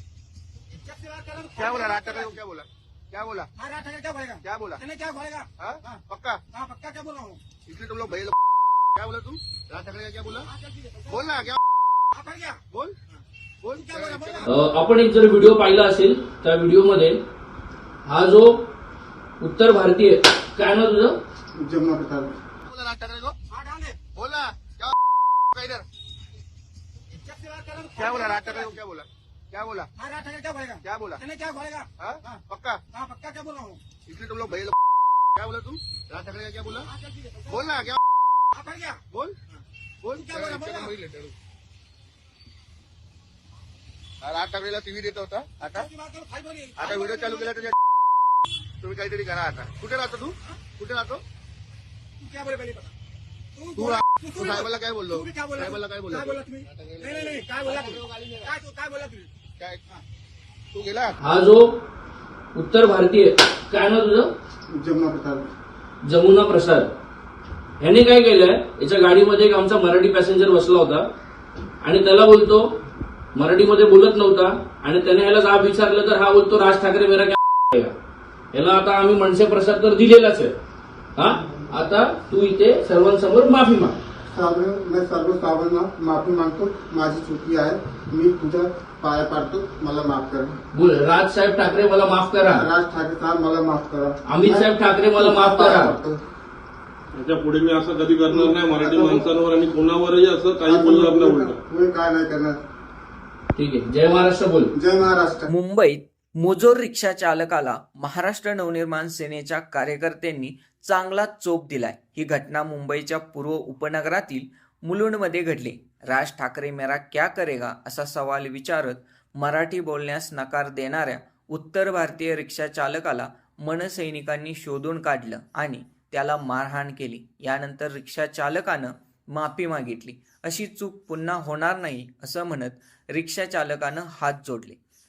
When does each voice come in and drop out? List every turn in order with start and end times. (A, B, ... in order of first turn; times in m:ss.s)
0:00.9-0:01.7 A
0:01.5-0:03.5 B
0:03.6-0:05.5 A
0:04.4-0:04.8 B
0:05.6-0:06.4 B
0:06.6-0:07.4 A
0:07.6-0:08.4 B
0:08.9-0:10.5 B
0:11.1-0:11.6 B
0:12.2-0:12.6 A
0:13.6-0:14.5 B
0:14.5-0:17.2 C
0:18.0-0:18.7 C
0:19.4-0:21.2 C
0:21.6-0:22.4 D
0:22.6-0:23.4 B
0:23.6-0:24.0 A
0:24.1-0:25.0 B
0:25.5-0:25.9 B
0:27.2-0:28.1 A
0:27.9-0:29.9 B
0:30.0-0:31.9 A
0:30.8-0:31.2 B
0:32.0-0:32.8 B
0:33.0-0:33.8 A
0:34.0-0:34.8 B
0:35.4-0:36.9 B
0:37.5-0:38.0 B
0:38.6-0:39.0 A
0:39.1-0:39.4 B
0:40.0-0:41.3 B
0:44.2-0:45.9 B
0:45.9-0:46.7 A
0:46.8-0:47.8 B
0:48.8-0:51.2 B
0:52.3-0:52.9 A
0:53.8-0:58.5 B
0:55.2-0:55.6 A
0:57.0-0:57.8 A
0:58.5-0:59.3 A
0:59.6-0:59.8 B
1:00.7-1:01.2 B
1:01.2-1:01.8 C
1:02.5-1:04.3 C
1:04.7-1:05.5 D
1:06.0-1:06.9 C
1:07.8-1:11.1 C
1:11.8-1:12.7 C
1:13.3-1:17.9 C
1:18.5-1:20.6 C
1:21.2-1:24.0 C
1:21.2-1:21.8 D
1:24.3-1:30.6 D
1:30.7-1:32.7 C
1:32.4-1:36.2 D
1:34.2-1:35.9 C
1:37.1-1:41.6 E
1:38.3-1:39.4 D
1:40.7-1:42.6 D
1:43.6-1:44.7 C
1:44.8-1:45.5 D
1:45.5-2:14.8 F